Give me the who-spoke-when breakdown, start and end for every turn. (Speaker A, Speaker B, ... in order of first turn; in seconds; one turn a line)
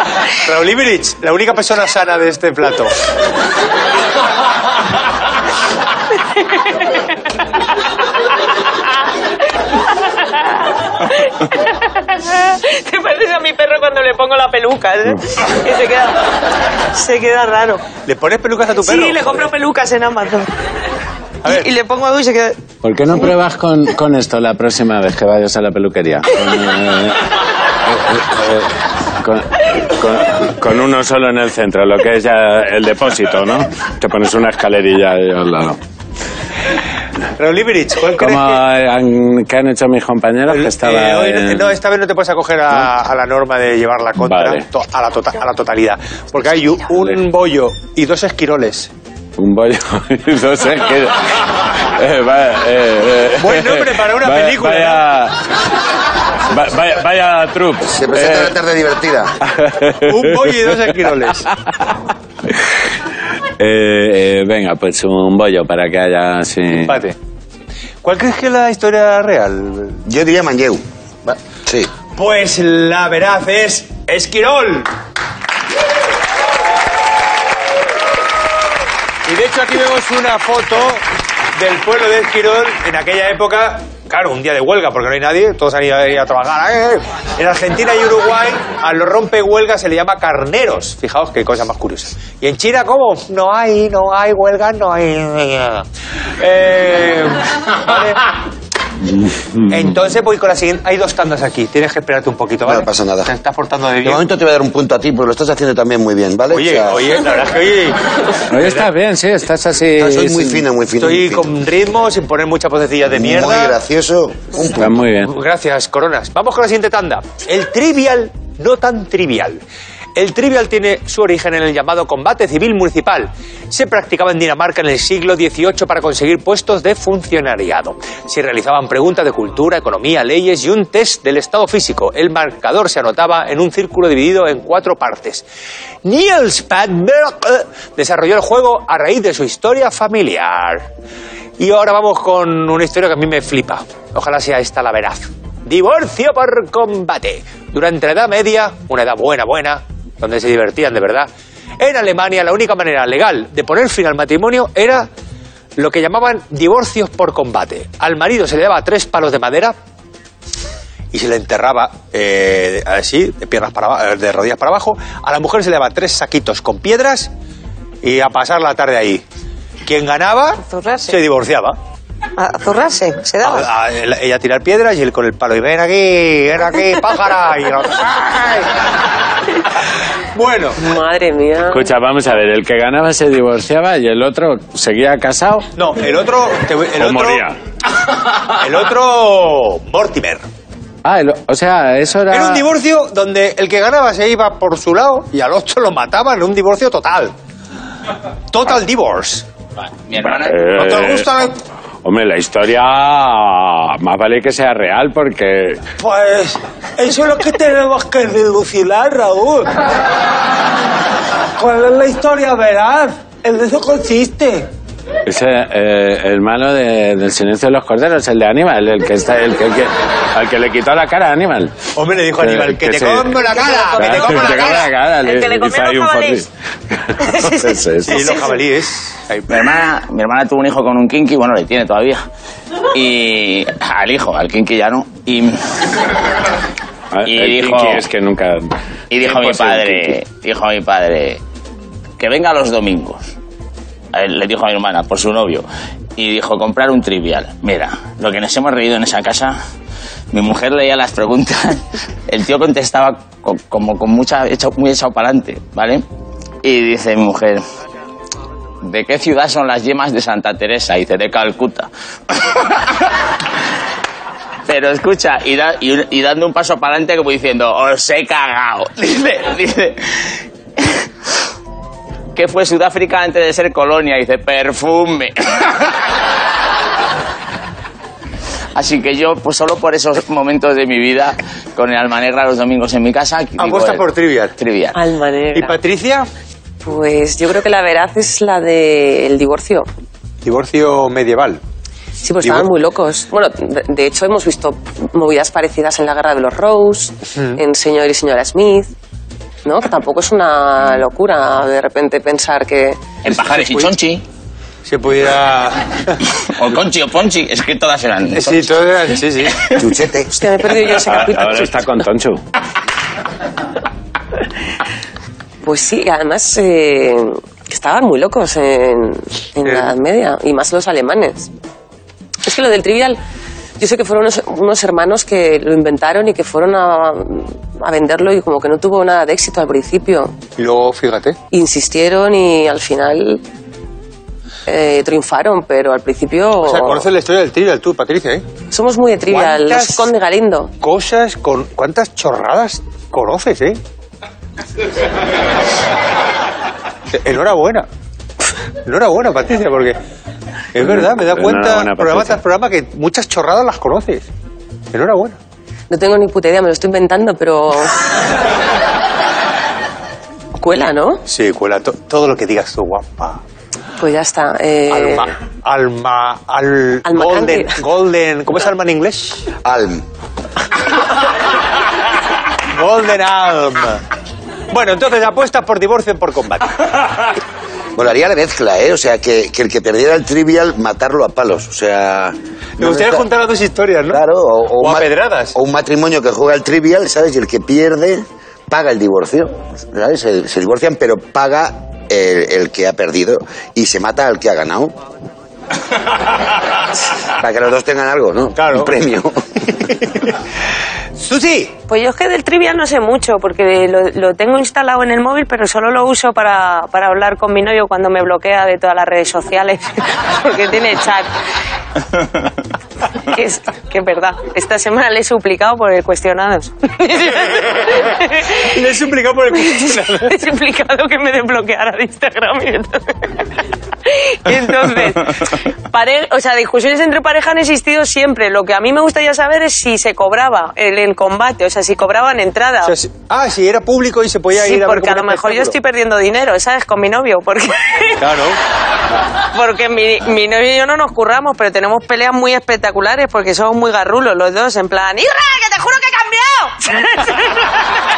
Speaker A: 0.3-2.9
Speaker B: 11.0-16.2
Speaker B: 16.9-17.9
Speaker A: 18.0-19.5
Speaker B: 18.8-20.5
Speaker A: 21.4-21.7
Speaker B: 21.4-22.6
Speaker C: 22.8-27.2
Speaker C: 27.9-35.8
Speaker A: 37.4-38.6
Speaker C: 38.2-41.7
Speaker A: 40.5-48.9
Speaker C: 44.2-44.6
Speaker C: 49.4-55.4
Speaker A: 53.4-55.1
Speaker C: 56.5-58.5
Speaker D: 57.9-59.4
Speaker C: 59.4-60.7
Speaker A: 60.0-61.5
Speaker C: 63.6-67.0
Speaker A: 66.8-67.1
Speaker A: 68.0-70.0
Speaker D: 70.0-71.9
Speaker A: 72.1-74.9
Speaker A: 79.2-81.0
Speaker A: 81.5-95.8
Speaker A: 96.4-98.3
Speaker C: 99.1-99.8
Speaker A: 99.7-104.2
Speaker D: 102.6-103.3
Speaker D: 104.0-107.2
Speaker A: 106.5-108.9
Speaker C: 108.5-110.6
Speaker D: 110.0-111.5
Speaker A: 111.0-113.8
Speaker D: 113.1-114.9
Speaker C: 114.8-115.3
Speaker A: 115.2-119.6
Speaker A: 120.2-135.4
Speaker A: 136.0-140.9
Speaker A: 141.6-155.1
Speaker A: 155.8-159.8
Speaker A: 161.1-167.3
Speaker A: 168.0-169.2
Speaker A: 169.8-171.8
Speaker B: 170.6-171.2
Speaker B: 172.3-173.7
Speaker A: 173.4-178.8
Speaker A: 180.3-180.8
Speaker E: 180.8-181.9
Speaker C: 181.7-185.7
Speaker A: 185.8-187.5
Speaker C: 187.0-187.6
Speaker A: 188.6-190.4
Speaker C: 191.0-192.7
Speaker A: 192.3-197.3
Speaker A: 198.5-199.5
Speaker F: 199.8-200.6
Speaker C: 200.3-201.3
Speaker A: 200.7-201.6
Speaker C: 202.0-205.8
Speaker A: 206.0-209.8
Speaker A: 211.5-214.7
Speaker C: 215.2-221.7
Speaker A: 221.9-224.9
Speaker C: 222.4-223.3
Speaker B: 223.5-226.4
Speaker C: 224.0-228.3
Speaker B: 227.2-228.6
Speaker A: 228.0-229.7
Speaker F: 229.5-232.2
Speaker F: 232.9-235.8
Speaker C: 237.1-240.2
Speaker F: 237.3-238.0
Speaker F: 239.1-241.4
Speaker F: 242.2-243.2
Speaker F: 244.1-245.6
Speaker F: 246.2-249.6
Speaker F: 250.3-256.0
Speaker F: 256.6-257.6
Speaker F: 258.8-263.0
Speaker F: 264.7-271.0
Speaker F: 272.3-276.0
Speaker F: 278.7-285.0
Speaker A: 283.6-284.5
Speaker E: 284.9-285.8
Speaker A: 285.5-286.3
Speaker E: 286.8-289.9
Speaker A: 290.4-291.6
Speaker E: 292.2-298.9
Speaker A: 292.4-292.7
Speaker E: 299.6-303.0
Speaker F: 303.2-304.2
Speaker A: 303.6-303.9
Speaker A: 304.8-306.2
Speaker F: 306.4-308.7
Speaker A: 308.3-309.6
Speaker D: 309.8-310.3
Speaker E: 310.3-312.0
Speaker C: 311.0-312.4
Speaker E: 315.6-321.5
Speaker E: 322.4-323.2
Speaker E: 323.8-330.4
Speaker A: 330.6-331.4
Speaker E: 331.5-333.4
Speaker E: 334.6-337.1
Speaker A: 336.6-338.4
Speaker E: 338.7-340.7
Speaker A: 339.3-340.1
Speaker A: 340.8-343.8
Speaker A: 347.1-347.9
Speaker A: 348.8-350.0
Speaker A: 350.7-354.3
Speaker C: 350.8-352.4
Speaker A: 354.9-355.4
Speaker E: 355.9-358.1
Speaker E: 360.6-361.2
Speaker A: 361.3-363.4
Speaker E: 364.0-365.3
Speaker A: 364.9-369.5
Speaker E: 367.1-367.8
Speaker D: 369.6-370.0
Speaker A: 372.7-374.0
Speaker A: 374.7-377.3
Speaker D: 377.9-383.2
Speaker A: 382.8-384.2
Speaker D: 384.1-394.9
Speaker A: 384.8-385.6
Speaker D: 397.4-399.7
Speaker A: 398.6-398.9
Speaker A: 401.1-401.8
Speaker B: 401.9-411.3
Speaker B: 413.2-418.8
Speaker A: 418.6-420.3
Speaker B: 419.6-423.4
Speaker B: 424.0-432.9
Speaker A: 432.8-435.7
Speaker B: 434.5-438.2
Speaker A: 438.2-438.6
Speaker B: 439.5-447.7